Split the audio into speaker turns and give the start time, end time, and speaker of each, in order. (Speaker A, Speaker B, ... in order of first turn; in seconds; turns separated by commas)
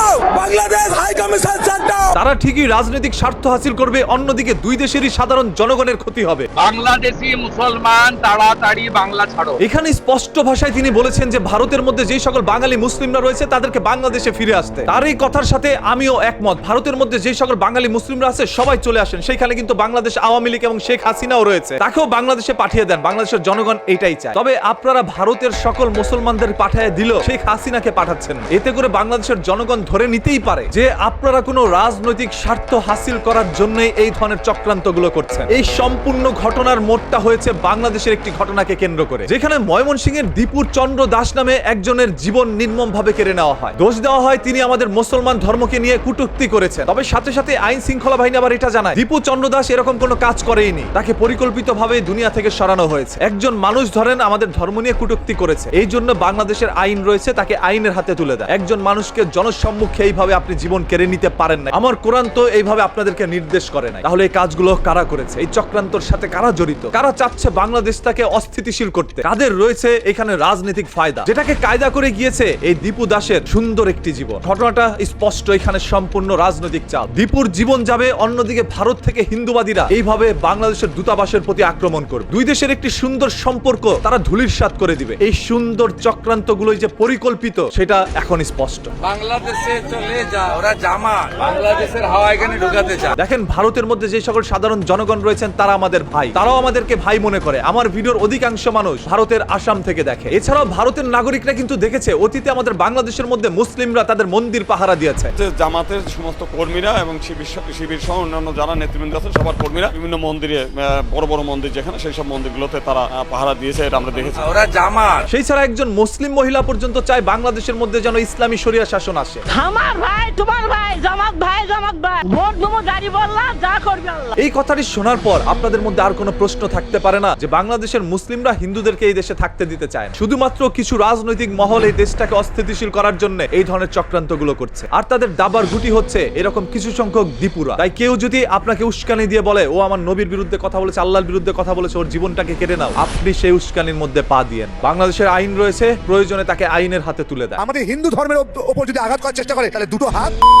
Speaker A: 2.1-6.5, Speaker B: 6.6-9.6, Speaker A: 9.6-88.9, Speaker C: 89.0-93.1, Speaker A: 93.2-105.3, Speaker D: 105.4-114.8, Speaker C: 114.4-115.2, Speaker A: 115.3-119.4, Speaker E: 119.5-124.3, Speaker A: 124.4-147.6, Speaker F: 147.6-150.3